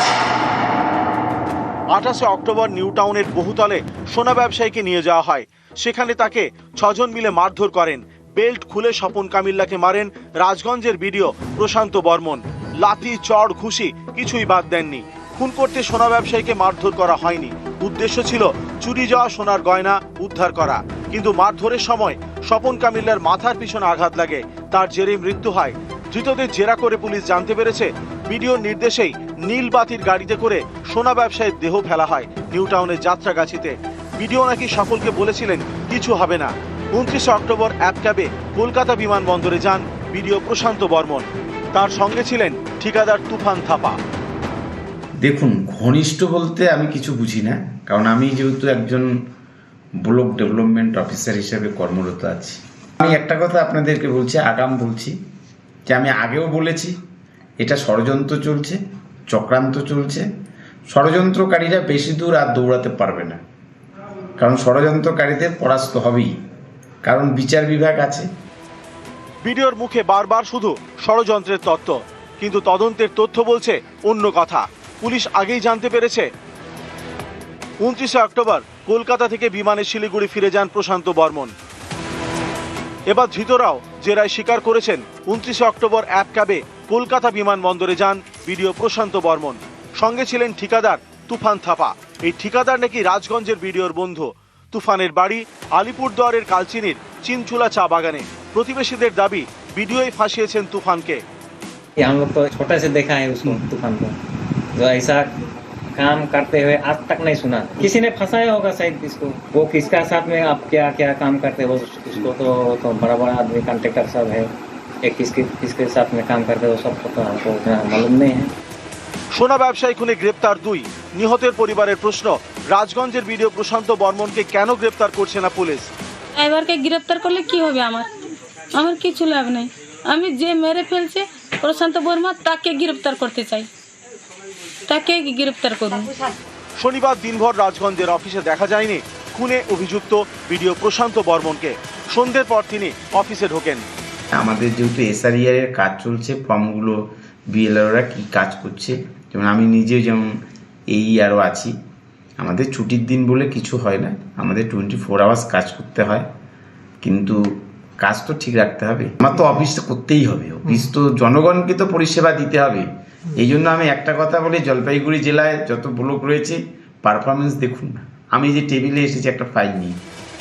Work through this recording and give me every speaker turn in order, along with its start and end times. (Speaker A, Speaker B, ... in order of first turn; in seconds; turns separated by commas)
Speaker A: 1.9-44.0, Speaker B: 45.2-49.1, Speaker B: 50.0-55.2, Speaker B: 55.9-56.9, Speaker B: 57.6-58.8, Speaker B: 59.3-60.3, Speaker B: 60.9-63.4, Speaker B: 64.4-66.3, Speaker B: 67.0-68.3, Speaker A: 69.4-76.3, Speaker A: 77.8-81.5, Speaker A: 83.1-101.2, Speaker C: 102.0-104.1, Speaker C: 104.8-105.3, Speaker C: 106.0-114.5, Speaker C: 115.0-118.5, Speaker A: 119.3-125.9, Speaker D: 126.4-128.1, Speaker D: 128.8-133.7, Speaker D: 134.9-136.3, Speaker A: 136.8-143.8, Speaker B: 144.4-147.0, Speaker B: 147.5-150.3, Speaker B: 150.9-151.7, Speaker B: 152.4-156.3, Speaker B: 157.0-157.4, Speaker B: 158.0-162.8, Speaker B: 163.4-169.9